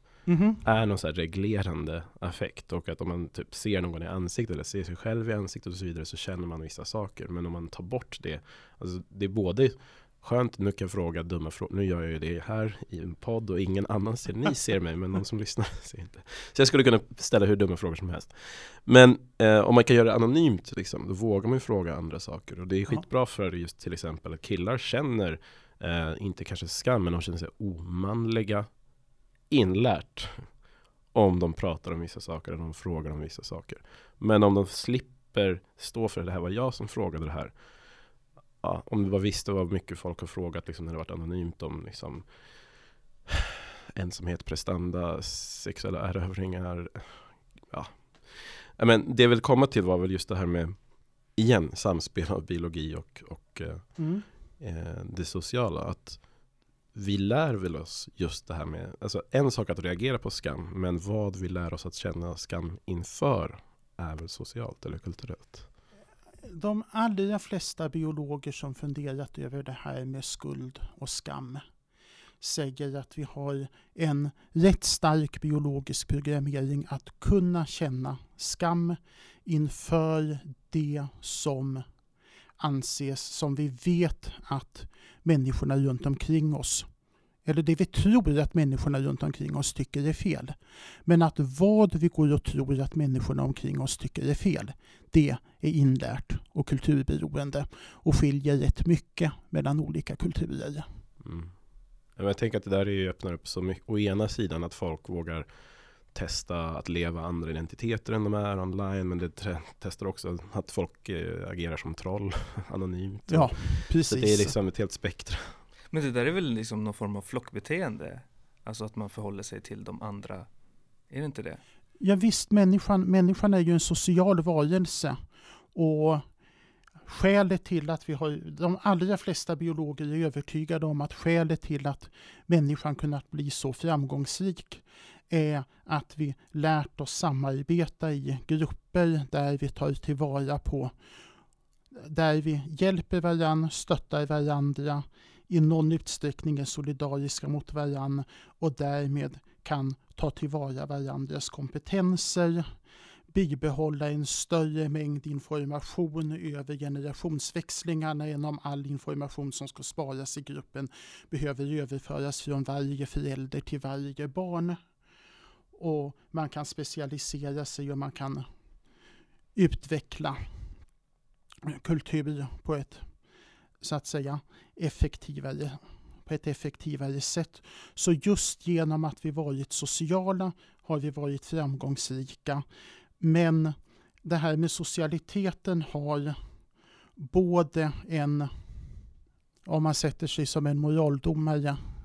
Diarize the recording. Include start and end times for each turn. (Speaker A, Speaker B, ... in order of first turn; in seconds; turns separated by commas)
Speaker A: 0.3-0.6, Speaker B: 0.6-28.7, Speaker B: 29.5-30.5, Speaker B: 31.1-37.5, Speaker B: 38.6-42.3, Speaker B: 43.3-50.8, Speaker B: 51.3-54.0, Speaker A: 54.0-54.2, Speaker B: 54.6-56.2, Speaker B: 56.9-65.7, Speaker A: 66.4-71.6, Speaker A: 72.4-81.8, Speaker A: 82.6-86.9, Speaker A: 87.4-100.9, Speaker B: 101.2-101.5, Speaker B: 102.2-105.5, Speaker B: 106.1-115.6, Speaker A: 113.3-114.5, Speaker C: 115.9-120.5, Speaker C: 121.1-121.6, Speaker A: 122.0-125.2, Speaker A: 125.7-126.2, Speaker A: 127.0-140.9, Speaker A: 141.9-152.7, Speaker A: 153.3-164.8, Speaker A: 165.7-168.5, Speaker A: 169.5-170.4, Speaker A: 171.6-173.0, Speaker A: 173.8-182.6, Speaker A: 183.2-186.4, Speaker A: 187.2-188.5, Speaker A: 189.7-191.8